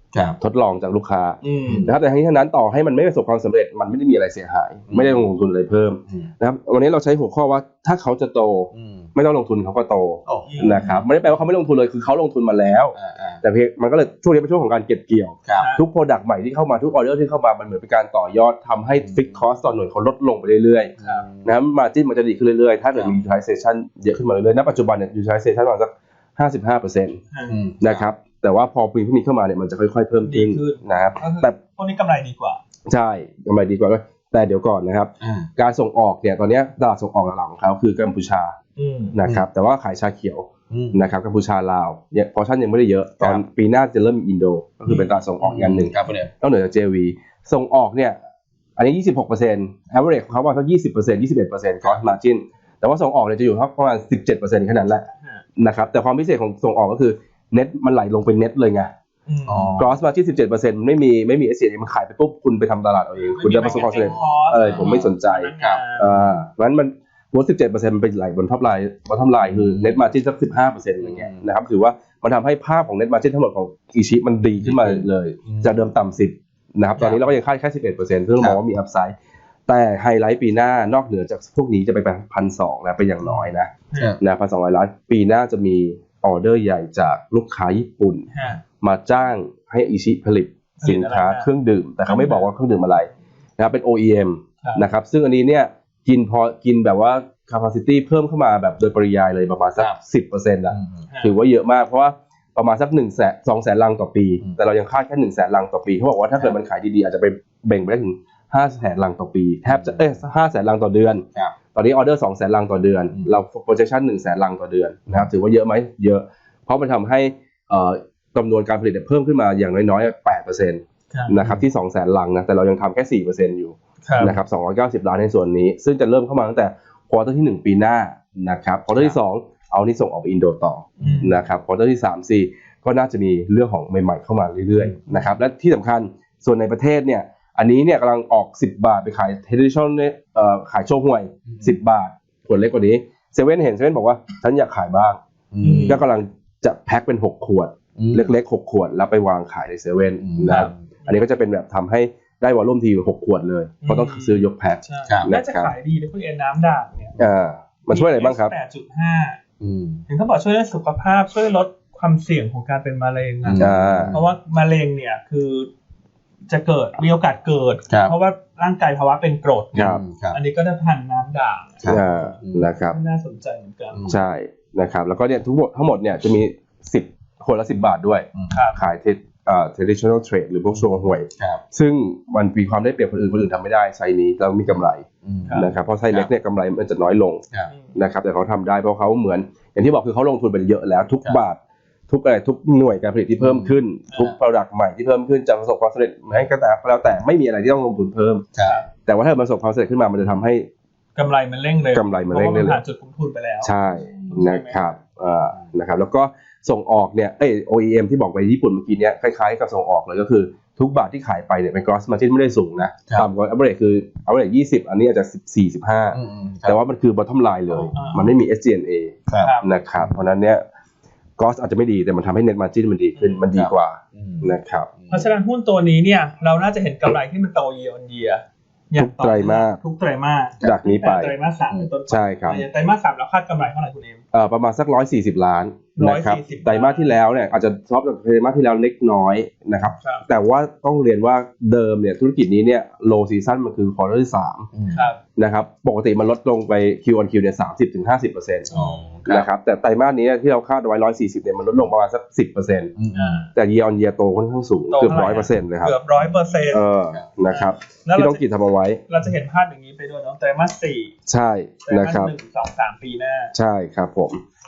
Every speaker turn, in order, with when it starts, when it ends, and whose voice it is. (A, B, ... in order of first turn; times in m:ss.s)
0:00.4-0:20.9 A
0:01.4-0:01.8 B
0:01.6-0:01.9 C
0:04.9-0:05.3 C
0:08.7-0:09.1 C
0:10.2-0:11.1 C
0:10.5-0:10.8 B
0:12.9-0:13.4 C
0:15.6-0:15.8 B
0:19.0-0:19.4 C
0:21.0-0:21.5 C
0:21.4-0:27.2 A
0:27.3-0:27.6 B
0:27.5-0:28.1 C
0:27.8-0:31.6 A
0:30.2-0:32.6 B
0:32.9-0:38.6 A
0:35.2-0:35.5 C
0:38.8-0:39.2 B
0:39.1-0:48.2 A
0:40.7-0:41.1 C
0:44.9-0:45.2 B
0:45.4-0:46.3 C
0:48.8-0:58.9 A
0:59.3-0:59.8 B
0:59.5-1:00.0 C
0:59.8-1:19.1 A
1:03.3-1:06.4 C
1:03.4-1:06.1 B
1:09.4-1:10.0 C
1:11.0-1:11.4 C
1:14.6-1:15.8 C
1:17.0-1:17.2 C
1:19.7-2:25.2 A
1:23.2-1:24.2 C
1:28.3-1:28.6 B
1:30.8-1:31.5 B
1:32.0-1:32.5 B
1:40.7-1:41.1 C
1:41.1-1:41.4 B
1:49.6-1:50.1 C
2:01.4-2:01.6 C
2:04.0-2:04.4 B
2:11.0-2:11.3 C
2:11.0-2:11.4 B
2:14.8-2:15.2 C
2:25.5-2:26.0 C
2:25.6-2:26.0 B
2:25.8-2:35.7 A
2:28.0-2:28.3 C
2:30.2-2:30.8 C
2:30.4-2:31.2 B
2:33.8-2:37.2 B
2:37.2-2:38.5 A
2:37.9-2:39.4 B
2:39.6-2:40.0 C
2:40.1-2:45.7 B
2:43.4-2:44.3 C
2:43.6-2:44.2 A
2:46.5-2:52.0 B
2:47.9-2:48.1 C
2:49.7-2:50.4 C
2:49.7-2:50.0 A
2:51.8-2:52.7 C
2:51.8-2:53.0 A
2:52.9-2:54.1 B
2:53.9-2:54.2 C
2:54.1-3:07.4 A
2:58.5-2:58.8 B
3:00.7-3:01.6 C
3:04.7-3:06.3 C
3:07.7-3:08.0 B
3:07.9-3:18.4 A
3:13.4-3:14.4 C
3:14.1-3:14.3 B
3:18.5-3:18.8 C
3:18.6-3:18.9 B
3:19.0-3:20.7 A
3:21.2-3:24.8 B
3:21.9-3:22.8 A
3:23.6-3:40.6 A
3:24.1-3:24.3 C
3:36.1-3:36.8 C
3:37.9-3:38.3 B
3:39.3-3:40.2 C
3:39.4-3:39.7 B
3:41.4-3:44.9 A
3:43.2-3:43.4 B
3:43.5-3:45.3 C
3:45.1-3:54.2 B
3:49.0-3:49.8 A
3:50.6-3:51.3 A
3:52.1-3:52.6 A
3:54.3-4:04.7 A
3:56.0-3:57.1 B
4:00.0-4:00.3 B
4:04.7-4:05.1 C
4:04.9-4:05.2 B
4:05.4-4:08.7 A
4:08.7-4:09.5 C
4:08.7-4:09.1 B
4:09.3-4:12.9 A
4:13.0-4:13.4 C
4:13.1-4:13.5 B
4:13.5-4:16.0 A
4:14.9-4:16.8 B
4:16.1-4:17.4 C
4:16.7-4:19.0 A
4:17.5-4:18.4 B
4:19.1-4:21.1 B
4:21.3-4:22.3 A
4:21.8-4:23.5 B
4:23.5-4:24.4 A